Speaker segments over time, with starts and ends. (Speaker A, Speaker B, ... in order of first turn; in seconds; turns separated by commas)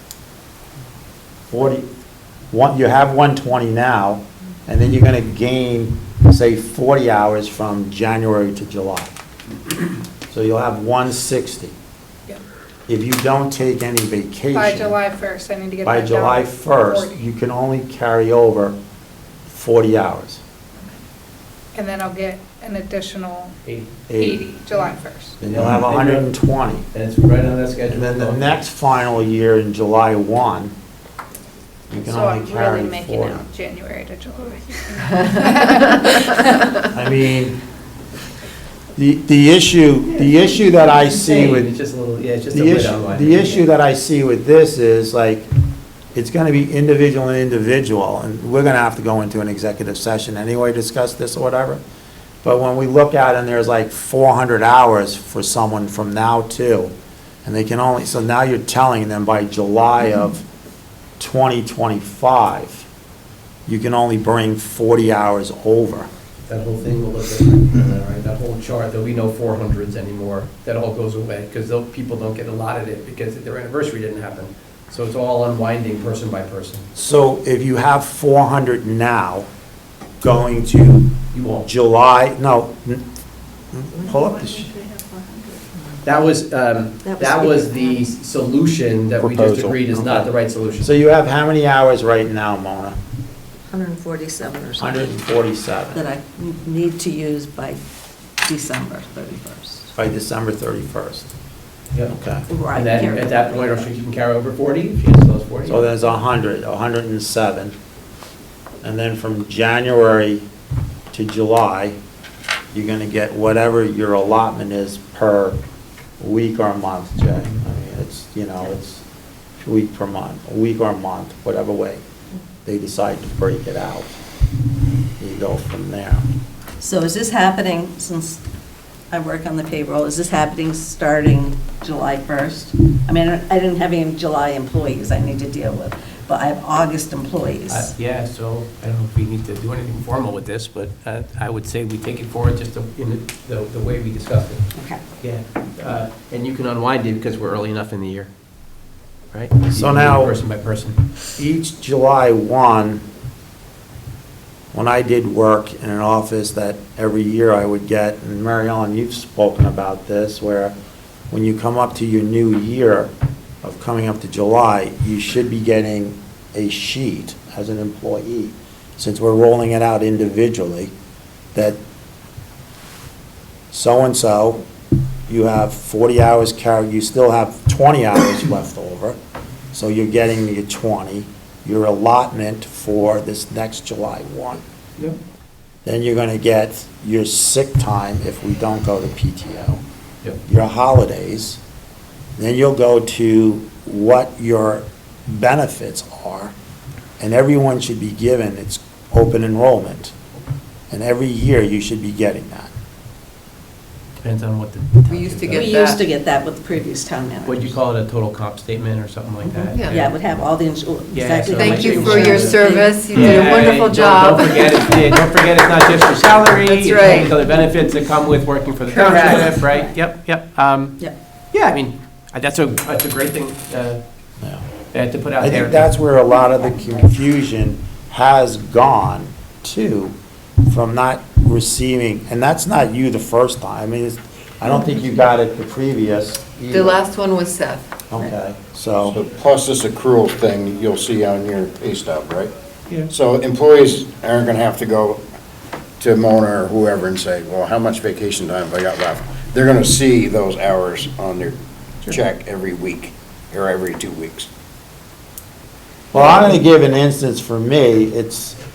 Speaker A: 1.5-1.9, Speaker A: 2.5-9.1, Speaker A: 10.3-11.7, Speaker A: 12.9-15.0, Speaker B: 14.5-17.2, Speaker A: 15.8-18.8, Speaker A: 19.5-20.4, Speaker B: 21.7-23.6, Speaker C: 23.6-23.9, Speaker A: 24.1-24.4, Speaker B: 24.1-25.4, Speaker A: 25.4-26.9, Speaker C: 25.5-26.3, Speaker C: 26.9-28.6, Speaker A: 27.9-30.7, Speaker A: 31.9-33.4, Speaker B: 31.9-36.4, Speaker A: 36.8-37.6, Speaker A: 39.0-41.7, Speaker C: 41.2-43.6, Speaker A: 42.5-45.5, Speaker A: 46.1-51.8, Speaker A: 52.4-56.9, Speaker A: 57.4-60.5, Speaker A: 61.2-62.9, Speaker A: 63.7-66.1, Speaker C: 66.5-76.8, Speaker A: 76.9-79.5, Speaker A: 80.2-83.1, Speaker C: 81.3-81.7, Speaker A: 83.7-84.7, Speaker D: 84.0-85.8, Speaker C: 86.0-90.9, Speaker D: 87.0-88.1, Speaker E: 89.2-90.0, Speaker A: 90.8-93.0, Speaker D: 93.7-95.1, Speaker A: 94.8-96.0, Speaker D: 95.9-97.8, Speaker D: 98.4-99.9, Speaker A: 99.9-101.3, Speaker A: 102.1-102.5, Speaker D: 102.5-103.8, Speaker C: 102.7-105.8, Speaker A: 105.7-107.8, Speaker A: 108.8-110.5, Speaker A: 111.1-112.0, Speaker A: 112.7-115.6, Speaker A: 116.2-119.0, Speaker A: 119.6-122.0, Speaker A: 122.6-124.1, Speaker A: 125.2-126.2, Speaker D: 126.8-128.4, Speaker D: 129.1-137.9, Speaker C: 137.7-144.7, Speaker D: 144.7-145.0, Speaker C: 145.2-148.3, Speaker C: 149.3-151.0, Speaker A: 149.7-150.4, Speaker A: 151.4-153.0, Speaker A: 154.7-160.7, Speaker A: 161.3-163.1, Speaker A: 163.6-170.9, Speaker A: 171.5-171.8, Speaker A: 173.7-174.7, Speaker A: 175.3-179.2, Speaker A: 179.7-184.6, Speaker A: 185.8-189.8, Speaker A: 190.4-191.6, Speaker A: 192.4-196.5, Speaker A: 197.2-200.1, Speaker A: 200.9-202.7, Speaker C: 204.2-205.8, Speaker F: 205.1-206.0, Speaker D: 205.5-207.7, Speaker C: 207.4-210.2, Speaker D: 209.9-213.5, Speaker C: 211.1-224.0, Speaker F: 211.5-215.2, Speaker F: 216.7-217.3, Speaker D: 218.9-219.5, Speaker A: 219.0-219.5, Speaker C: 224.9-226.0, Speaker A: 225.4-237.0, Speaker F: 236.7-237.8, Speaker A: 238.1-239.2, Speaker E: 239.1-242.5, Speaker E: 243.1-245.2, Speaker E: 246.0-254.5, Speaker A: 256.1-258.6